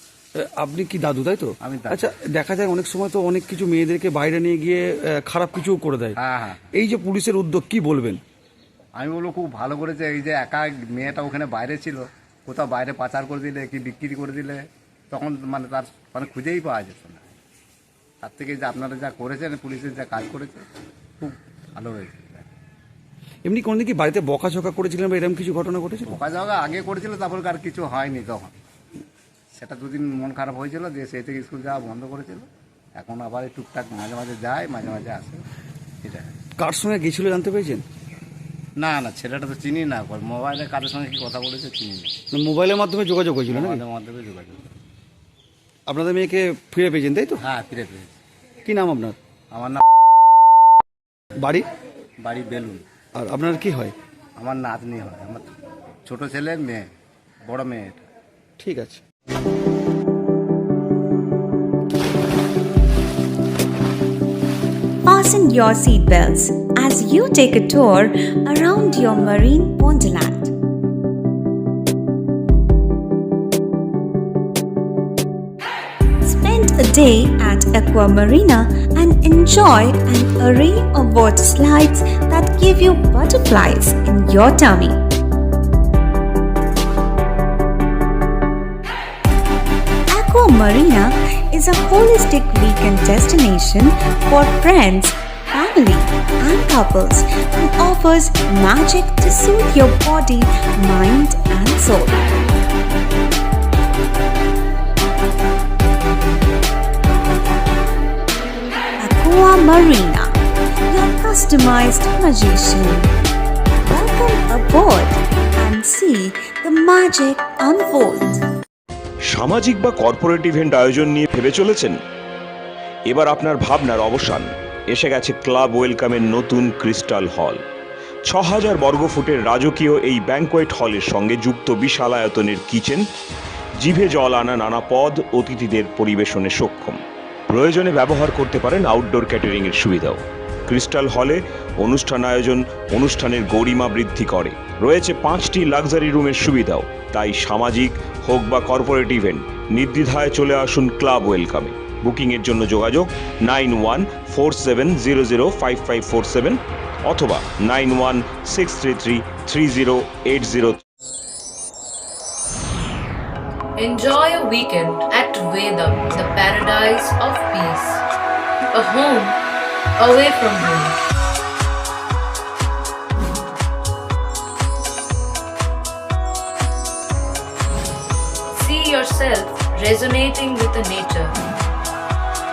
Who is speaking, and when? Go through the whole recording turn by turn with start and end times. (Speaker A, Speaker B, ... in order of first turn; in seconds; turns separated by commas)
Speaker A: 0.3-6.2, Speaker B: 1.6-2.1, Speaker B: 6.2-6.6, Speaker A: 6.7-8.2, Speaker B: 8.9-17.2, Speaker B: 18.2-20.6, Speaker B: 21.2-22.4, Speaker A: 23.4-26.2, Speaker B: 26.1-28.6, Speaker B: 29.6-35.4, Speaker B: 36.0-36.3, Speaker A: 36.6-37.8, Speaker B: 38.8-42.1, Speaker A: 42.3-43.8, Speaker B: 43.5-44.6, Speaker A: 45.9-47.4, Speaker B: 47.4-48.1, Speaker A: 48.6-49.2, Speaker B: 49.5-49.8, Speaker A: 51.4-51.6, Speaker B: 52.2-52.8, Speaker A: 53.1-53.9, Speaker B: 54.4-55.5, Speaker B: 56.0-56.9, Speaker B: 57.4-58.0, Speaker A: 58.6-59.0, Speaker C: 65.0-70.5, Speaker C: 76.2-85.0, Speaker C: 90.1-102.2, Speaker C: 109.0-110.3, Speaker C: 110.9-113.1, Speaker C: 113.8-118.4, Speaker D: 119.2-122.0, Speaker D: 123.1-127.6, Speaker D: 128.2-133.1, Speaker D: 133.8-160.8, Speaker E: 163.8-168.0, Speaker E: 168.7-169.4, Speaker E: 170.0-171.0, Speaker E: 178.5-181.3